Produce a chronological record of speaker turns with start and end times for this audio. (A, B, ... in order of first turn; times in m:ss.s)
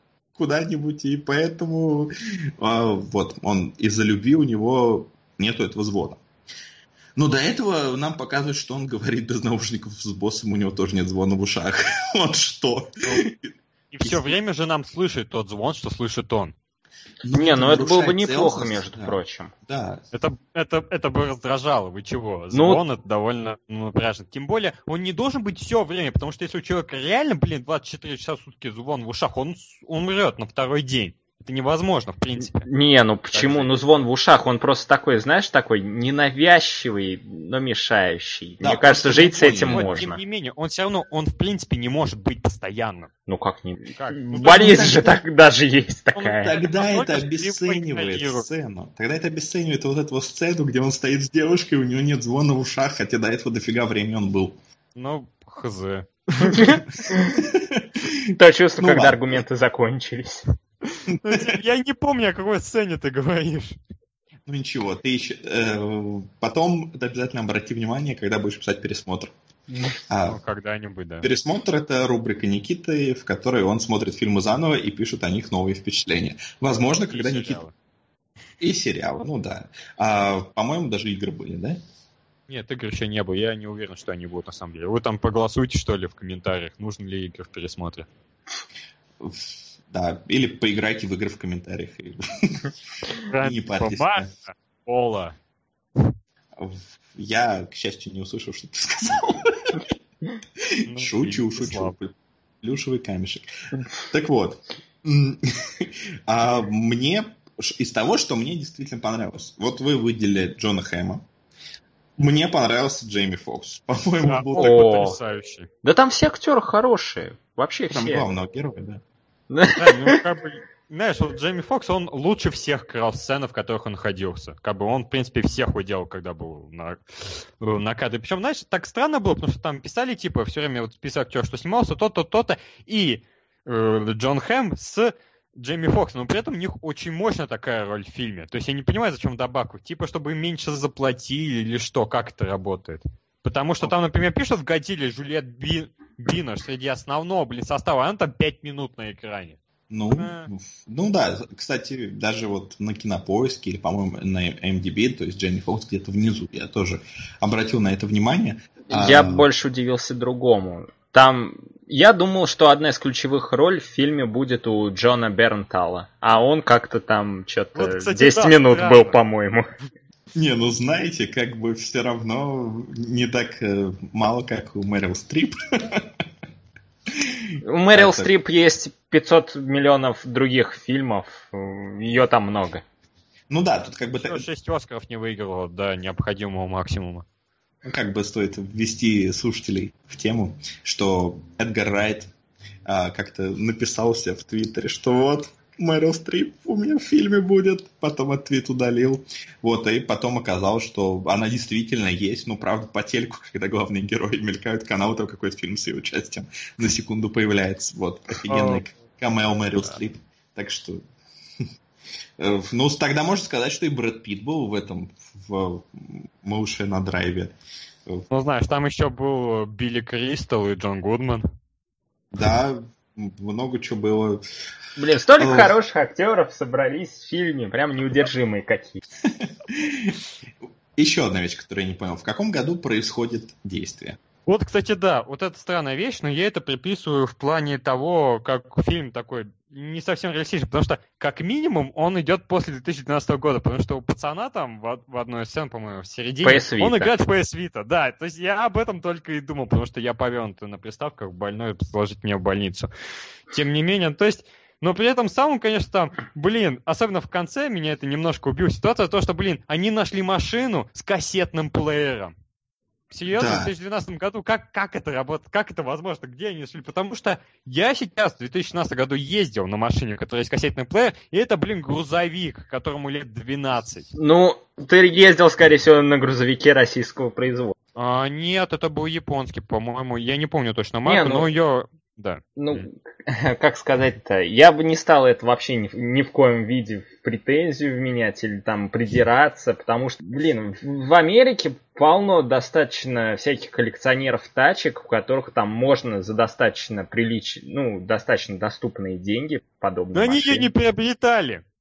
0:00.4-0:06.2 A
0:07.2-0:14.4 A
0:13.9-0:16.5 B
0:17.2-0:20.0 A
0:17.3-0:19.5 C
0:20.1-0:32.7 B
0:22.5-0:22.8 C
0:32.5-0:40.2 C
0:33.3-0:33.7 B
0:38.6-0:40.0 A
0:39.7-0:43.1 B
0:43.3-0:46.5 C
0:43.9-0:45.1 B
0:44.4-0:45.2 A
0:46.1-0:48.5 B
0:46.4-0:54.6 A
0:55.0-0:56.7 B
0:56.5-0:57.4 C
0:57.3-0:58.2 A
0:58.3-1:00.4 C
0:58.8-0:59.2 A
1:00.9-1:03.8 B
1:01.1-1:01.6 A
1:04.4-1:09.3 A
1:09.7-1:10.0 C
1:10.1-1:10.4 A
1:10.3-1:11.3 B
1:11.2-1:17.6 A
1:17.1-1:17.7 B
1:18.6-1:21.8 A
1:22.5-1:28.1 B
1:29.2-1:32.7 A
1:33.2-1:35.4 B
1:33.4-1:34.3 A
1:36.6-1:39.9 A
1:40.6-1:51.2 A
1:40.9-1:41.9 B
1:52.2-1:54.8 A
1:54.3-1:55.7 B
1:54.6-1:55.2 C
1:55.8-1:58.3 C
1:57.9-1:59.0 A
1:59.5-2:00.2 C
1:59.8-2:29.6 B
2:29.9-2:39.4 A
2:30.1-2:30.5 B
2:38.9-2:49.7 C
2:47.8-2:49.2 B
2:50.3-2:56.1 A
2:57.1-2:58.3 A
2:57.6-3:02.8 C
3:03.5-3:04.4 A
3:04.1-3:07.2 B
3:07.8-3:12.3 A
3:12.8-3:31.0 A
3:28.5-3:28.8 B
3:32.4-3:37.5 A
3:38.3-3:41.4 B
3:42.3-3:44.4 A
3:45.0-3:49.0 C
3:45.4-3:45.7 A
3:49.2-3:50.2 A
3:51.0-3:54.2 A
3:54.5-4:12.9 B
4:06.4-4:07.1 C
4:13.5-4:22.3 B
4:23.1-4:34.1 B
4:23.3-4:23.7 A
4:34.2-4:37.7 C
4:38.0-4:42.8 B
4:41.0-4:41.5 C
4:42.6-5:00.7 C
5:00.1-5:01.6 B